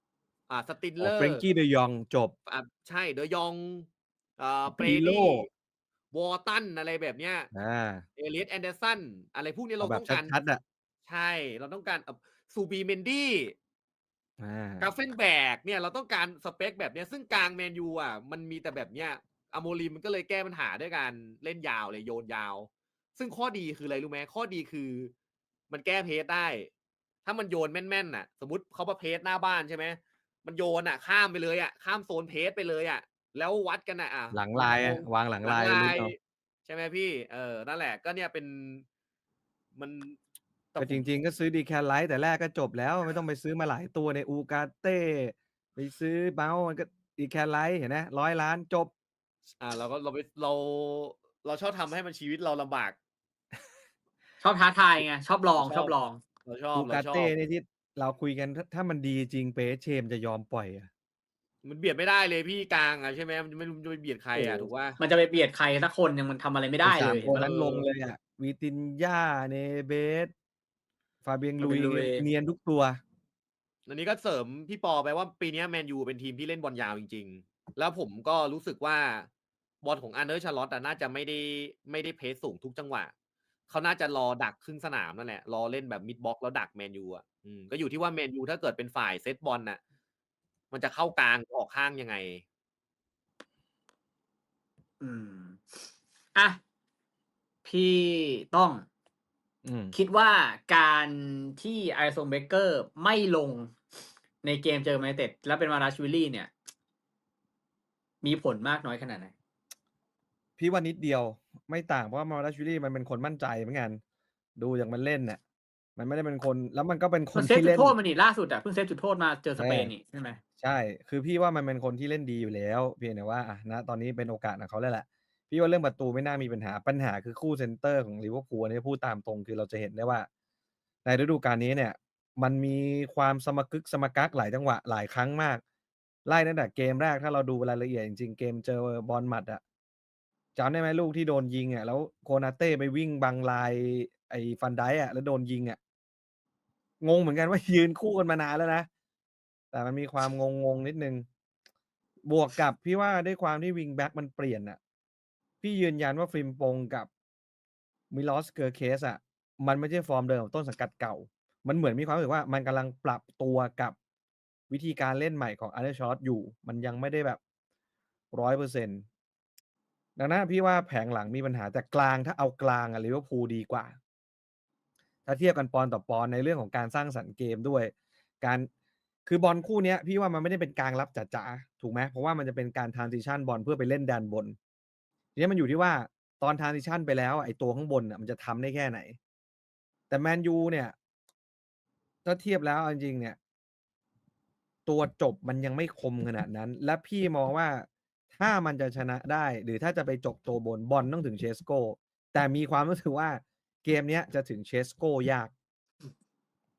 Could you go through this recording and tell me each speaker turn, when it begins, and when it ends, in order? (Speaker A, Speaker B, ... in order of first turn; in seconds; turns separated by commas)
Speaker A: 0.5-1.4, Speaker B: 1.0-2.4, Speaker A: 2.5-3.9, Speaker A: 4.4-5.5, Speaker B: 4.8-5.5, Speaker A: 6.1-7.5, Speaker B: 7.5-8.1, Speaker A: 8.2-10.3, Speaker B: 9.8-10.6, Speaker A: 11.1-13.6, Speaker B: 14.4-14.9, Speaker A: 14.8-25.1, Speaker A: 25.7-26.7, Speaker A: 27.2-36.1, Speaker B: 34.3-36.1, Speaker A: 36.6-38.9, Speaker A: 39.8-40.2, Speaker A: 40.8-41.1, Speaker B: 40.8-48.9, Speaker A: 49.6-53.0, Speaker C: 54.4-56.2, Speaker A: 55.6-55.9, Speaker A: 56.5-57.3, Speaker B: 56.8-60.9, Speaker A: 61.6-65.0, Speaker C: 64.5-67.8, Speaker B: 66.8-70.3, Speaker A: 67.4-67.8, Speaker B: 71.2-73.0, Speaker C: 71.6-72.2, Speaker A: 73.9-79.3, Speaker A: 79.8-83.1, Speaker A: 83.7-89.8, Speaker A: 90.7-92.4, Speaker C: 95.0-95.8, Speaker C: 96.3-96.6, Speaker C: 97.7-98.9, Speaker B: 99.7-99.9, Speaker C: 99.9-103.7, Speaker C: 104.4-106.5, Speaker C: 108.2-109.3, Speaker B: 110.6-114.0, Speaker B: 114.6-115.4, Speaker B: 116.0-118.0, Speaker C: 117.3-120.4, Speaker B: 119.6-119.9, Speaker B: 120.6-130.3, Speaker B: 131.1-135.6, Speaker B: 136.3-139.6, Speaker B: 140.6-145.8, Speaker B: 147.0-148.9, Speaker B: 149.7-151.3, Speaker B: 152.3-154.8, Speaker B: 155.6-157.1, Speaker B: 158.1-164.0, Speaker B: 164.7-167.4, Speaker B: 168.3-169.1, Speaker B: 170.2-174.0, Speaker B: 175.3-178.7, Speaker B: 179.3-184.6, Speaker B: 185.4-189.2, Speaker B: 190.1-190.9, Speaker B: 192.2-193.4, Speaker B: 194.9-205.5